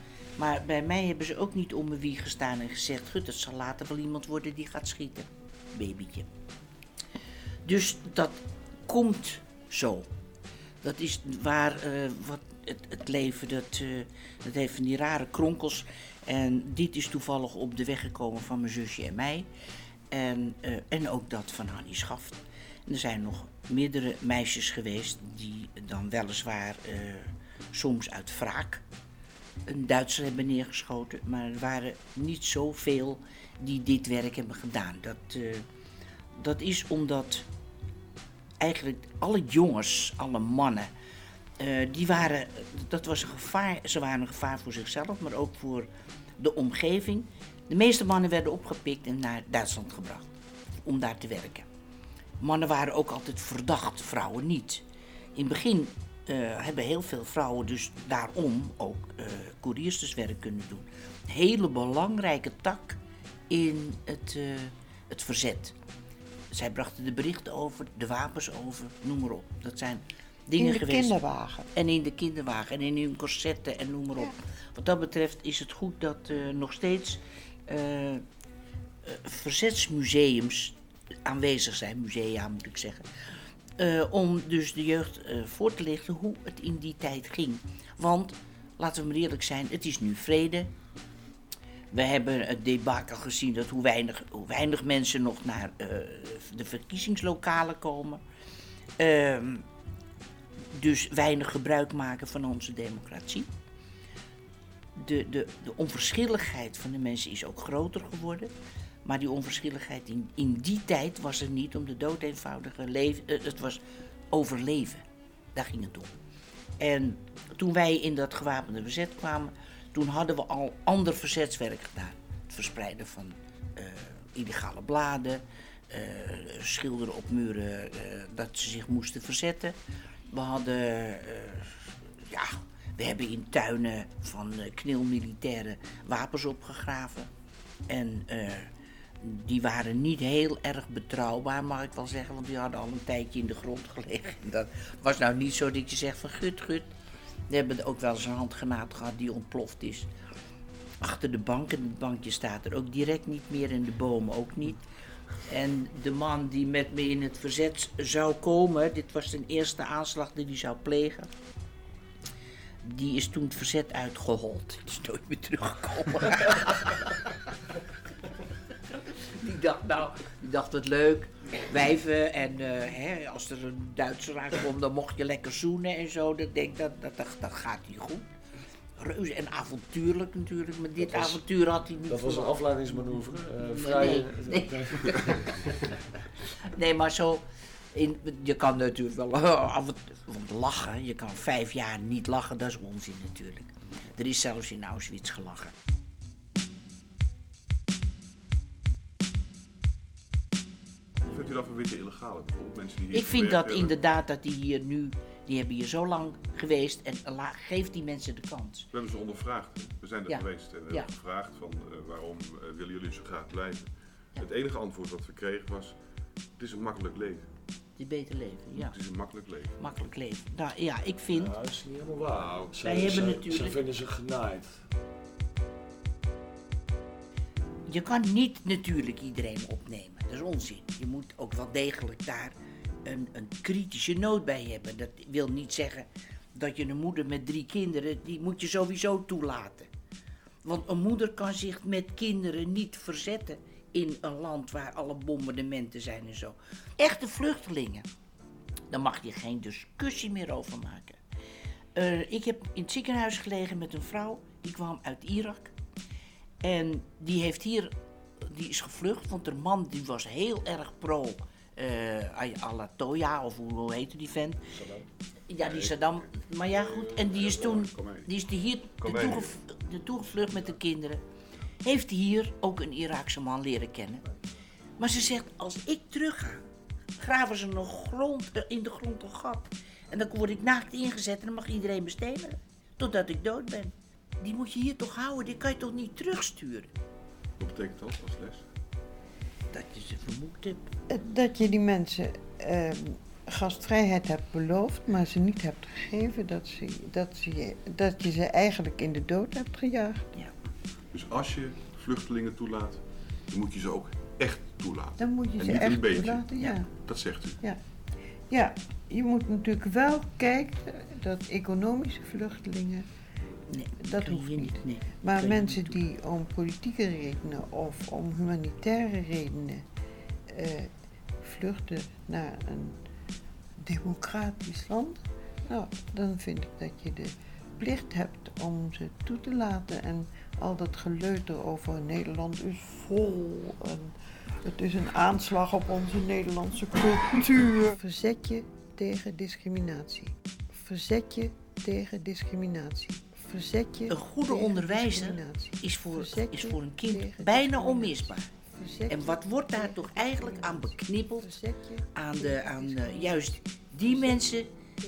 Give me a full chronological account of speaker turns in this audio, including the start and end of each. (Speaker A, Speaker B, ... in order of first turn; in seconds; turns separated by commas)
Speaker A: 0.4-6.3, Speaker A: 7.7-10.1, Speaker A: 10.8-19.5, Speaker A: 20.1-28.8, Speaker A: 29.7-35.7, Speaker A: 36.4-37.5, Speaker A: 38.6-40.9, Speaker A: 41.6-50.3, Speaker A: 50.8-51.7, Speaker A: 52.4-65.8, Speaker A: 66.5-71.2, Speaker B: 70.6-71.7, Speaker A: 71.7-78.2, Speaker A: 79.0-83.1, Speaker A: 83.8-90.7, Speaker A: 91.9-98.2, Speaker A: 99.0-99.7, Speaker A: 100.7-103.5, Speaker A: 105.0-108.5, Speaker A: 109.0-115.0, Speaker A: 115.5-116.1, Speaker A: 116.8-129.8, Speaker A: 130.3-137.3, Speaker A: 137.9-138.7, Speaker A: 139.2-146.9, Speaker A: 147.5-150.1, Speaker A: 151.0-154.8, Speaker A: 155.5-161.3, Speaker A: 162.8-167.3, Speaker A: 169.3-178.3, Speaker A: 179.0-185.5, Speaker C: 181.0-181.4, Speaker C: 182.1-185.5, Speaker A: 186.7-195.7, Speaker D: 201.2-204.0, Speaker A: 203.1-208.9, Speaker D: 208.9-217.5, Speaker A: 210.3-211.1, Speaker A: 218.0-221.6, Speaker D: 218.7-219.9, Speaker C: 221.3-224.8, Speaker A: 222.8-223.8, Speaker A: 227.9-239.9, Speaker A: 240.7-248.1, Speaker A: 248.9-251.2, Speaker A: 251.9-255.7, Speaker A: 256.6-264.6, Speaker A: 265.5-271.2, Speaker D: 265.6-265.9, Speaker D: 266.7-268.3, Speaker D: 269.0-269.5, Speaker A: 271.8-274.3, Speaker A: 275.0-276.6, Speaker A: 277.2-286.9, Speaker D: 287.6-288.6, Speaker A: 289.7-290.9, Speaker B: 291.1-300.3, Speaker D: 301.1-306.5, Speaker B: 305.2-307.8, Speaker D: 307.0-307.6, Speaker B: 308.5-313.1, Speaker A: 313.7-316.0, Speaker B: 314.0-319.9, Speaker B: 320.5-320.9, Speaker B: 321.4-323.0, Speaker B: 323.8-346.2, Speaker A: 344.1-348.5, Speaker B: 347.6-348.1, Speaker B: 348.8-349.1, Speaker A: 349.1-351.6, Speaker A: 352.1-354.7